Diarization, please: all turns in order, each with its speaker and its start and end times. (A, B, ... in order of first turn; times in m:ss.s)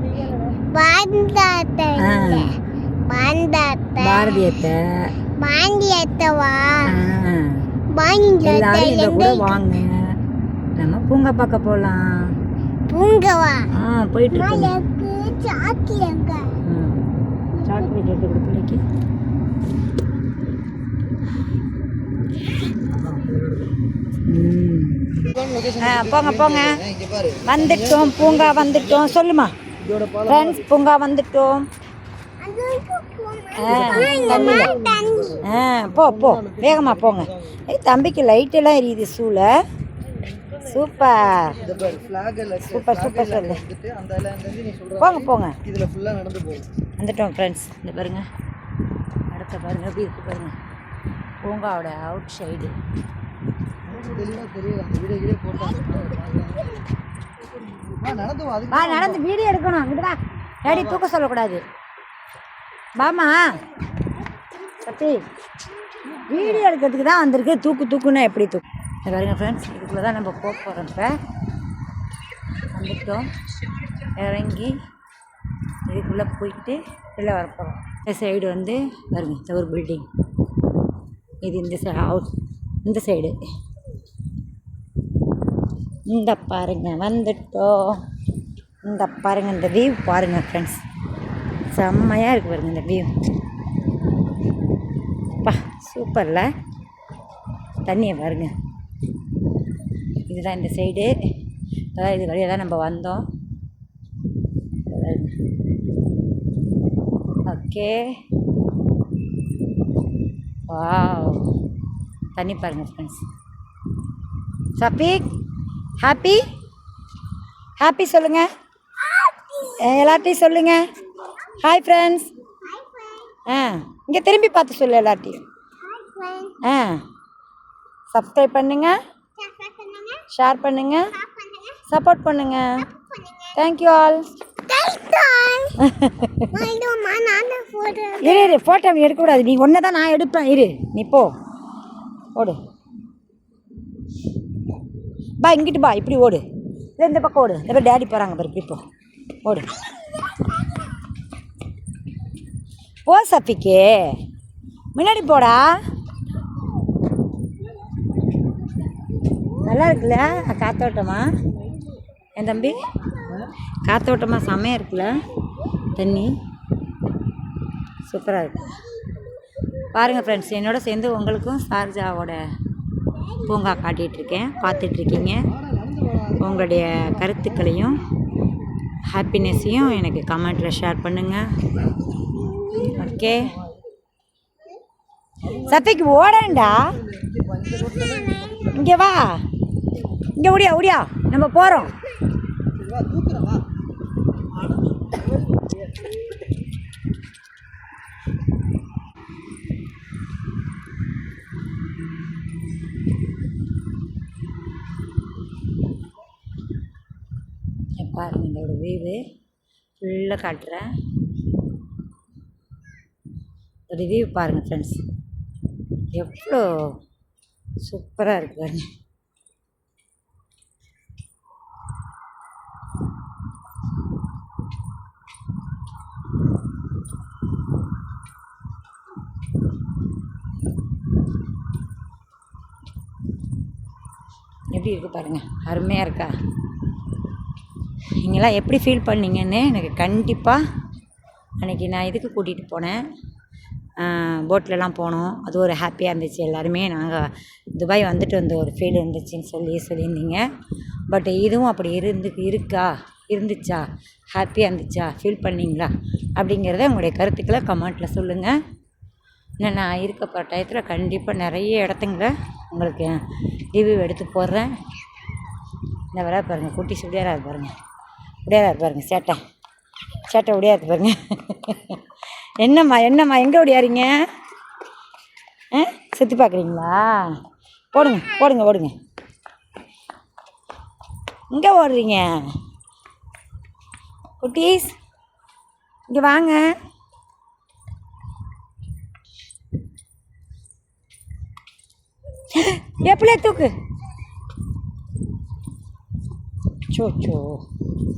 0:00.2-0:02.5 A
0:02.0-0:02.5 B
0:03.1-0:04.5 A
0:04.0-0:05.1 B
0:05.4-0:07.0 A
0:06.9-0:07.6 B
0:07.9-0:09.6 A
0:08.4-0:10.1 B
0:10.8-0:12.3 B
0:12.9-0:13.7 A
0:13.8-0:14.8 B
0:14.3-0:16.5 A
0:16.6-0:17.0 B
0:17.6-0:18.0 A
0:17.6-0:18.8 B
0:24.3-0:26.9 B
0:27.0-0:27.4 C
0:27.4-0:29.5 B
0:29.8-0:30.2 C
0:30.2-0:31.7 B
0:32.4-0:35.4 A
0:33.6-0:34.8 B
0:34.2-0:35.4 C
0:35.4-0:39.5 B
0:40.6-0:41.6 B
0:41.6-0:42.8 C
0:42.6-0:43.6 B
0:43.4-0:44.9 C
0:44.9-0:45.6 B
0:45.7-0:46.7 C
0:47.0-0:48.3 B
0:49.3-0:50.6 B
0:51.4-0:52.7 B
0:53.9-0:56.6 C
0:55.6-0:56.9 A
0:57.9-0:59.0 C
0:58.7-1:01.6 B
1:03.0-1:03.6 B
1:04.8-1:05.2 B
1:06.1-1:11.1 B
1:12.7-1:13.3 B
1:14.1-1:14.7 B
1:15.9-1:20.1 B
1:21.4-1:22.3 B
1:22.8-1:23.4 B
1:26.1-1:28.0 B
1:28.8-1:30.8 B
1:31.7-1:33.1 B
1:35.4-1:36.5 B
1:37.8-1:38.5 B
1:40.3-1:41.1 B
1:42.0-1:43.2 B
1:44.9-1:45.4 B
1:47.5-1:48.0 B
1:50.7-1:51.4 B
1:52.4-1:53.2 B
1:54.8-1:55.3 B
1:56.0-1:56.4 B
1:57.8-1:58.5 B
1:59.0-2:00.4 A
1:59.8-2:00.8 B
2:01.6-2:02.3 B
2:02.6-2:03.4 A
2:03.5-2:05.4 B
2:05.8-2:06.6 A
2:06.6-2:07.0 B
2:08.1-2:09.0 B
2:09.4-2:10.3 A
2:10.3-2:11.1 B
2:11.1-2:11.8 A
2:11.9-2:12.9 B
2:12.9-2:13.6 A
2:13.6-2:14.3 B
2:14.7-2:15.8 A
2:15.8-2:16.5 B
2:16.5-2:18.6 A
2:18.2-2:21.3 B
2:25.4-2:26.4 B
2:27.0-2:28.8 B
2:33.1-2:34.2 B
2:35.0-2:35.8 B
2:39.6-2:41.3 B
2:42.4-2:42.9 B
2:43.8-2:45.2 B
2:46.0-2:46.3 B
2:48.1-2:48.8 B
2:49.9-2:52.4 B
2:53.5-2:55.5 B
2:55.8-2:56.2 C
2:56.4-2:58.0 B
2:59.1-3:01.5 B
3:02.3-3:03.0 A
3:02.7-3:03.6 B
3:05.5-3:07.0 B
3:07.1-3:08.6 C
3:07.6-3:09.0 A
3:08.7-3:09.4 B
3:10.4-3:11.9 B
3:13.0-3:13.6 C
3:28.0-3:29.2 B
3:30.0-3:30.9 B
3:33.9-3:35.0 B
3:36.1-3:37.0 B
3:37.8-3:38.8 B
3:54.7-3:56.3 B
3:58.2-4:00.6 B
4:01.6-4:03.0 B
4:04.0-4:10.4 B
4:11.1-4:18.6 B
4:19.6-4:23.2 B
4:23.7-4:24.7 B
4:26.1-4:27.7 B
4:28.4-4:29.4 B
4:30.3-4:32.0 B
4:32.6-4:34.2 B
4:35.7-4:37.3 B
4:37.9-4:38.9 B
4:41.5-4:42.3 B
4:44.4-4:45.0 B
4:46.1-4:46.7 B
4:52.5-4:53.8 B
4:56.9-4:57.6 B